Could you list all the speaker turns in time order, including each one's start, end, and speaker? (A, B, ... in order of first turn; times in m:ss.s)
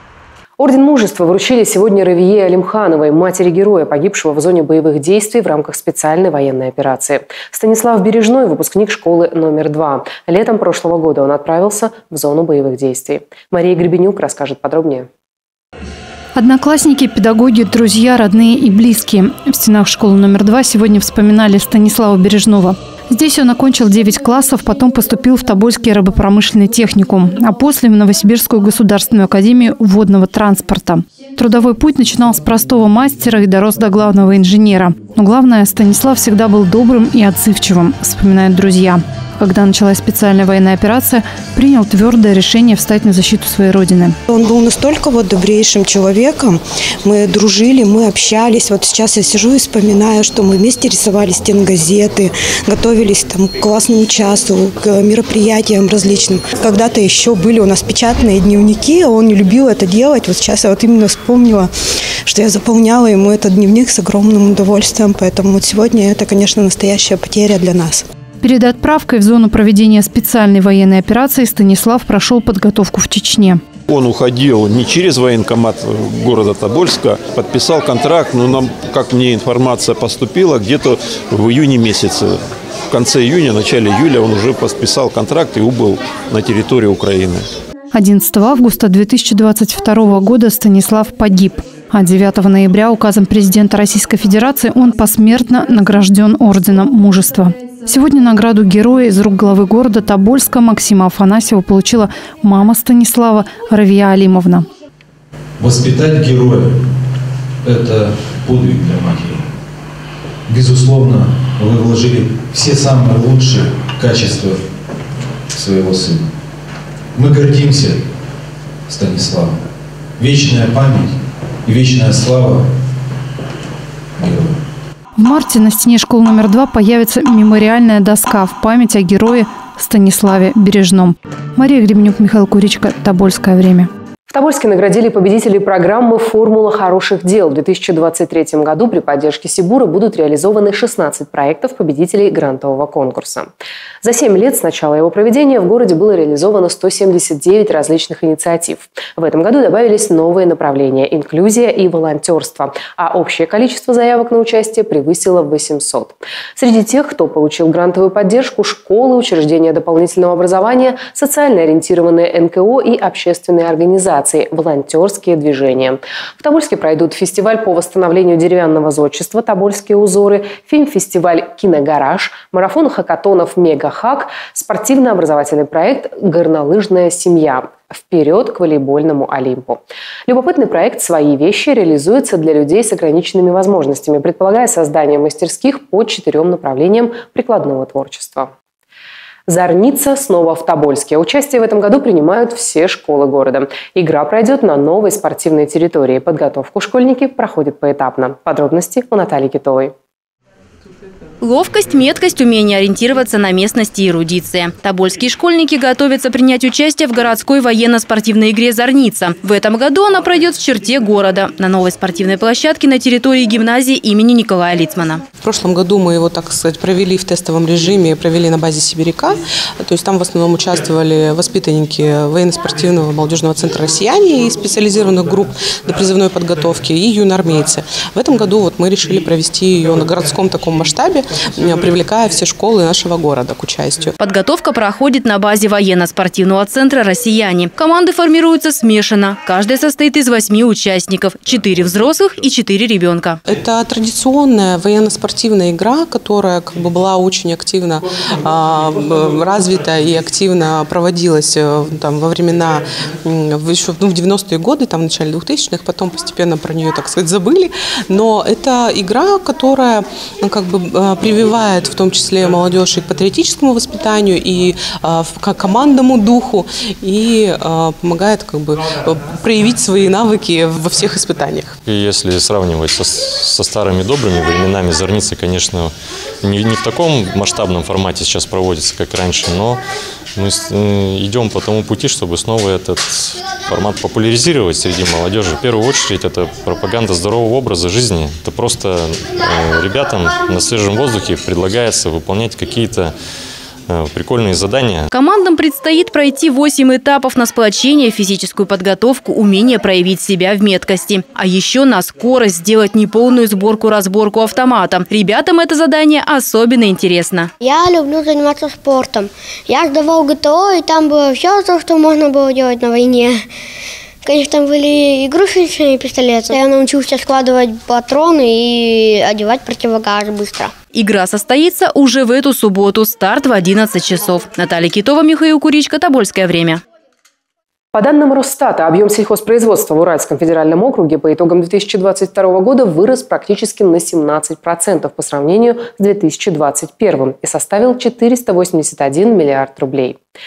0:00.6-0:15.1 A
0:16.3-0:44.2 B
0:44.3-1:01.7 C
1:02.2-1:08.0 C
1:08.4-1:13.6 B
1:13.9-1:22.3 D
1:22.9-1:27.5 D
1:27.9-1:44.6 B
1:45.6-1:46.6 E
1:47.6-1:49.4 E
1:50.5-1:54.6 E
1:55.5-1:56.2 E
1:57.1-1:58.0 E
1:58.9-1:59.5 E
2:00.2-2:01.1 E
2:01.6-2:02.6 E
2:04.2-2:04.5 E
2:05.2-2:13.9 B
2:14.3-3:08.5 A
3:09.5-3:19.9 A
3:21.4-3:35.2 F
3:35.4-3:54.1 G
3:54.2-4:03.4 F
4:03.5-4:31.8 G
4:31.8-4:39.8 H
4:40.4-4:53.1 H
4:53.9-4:55.1 H
4:55.1-5:07.5 F
5:07.6-5:13.5 I
5:14.2-5:20.7 I
5:20.9-5:26.8 F
5:27.9-5:40.2 A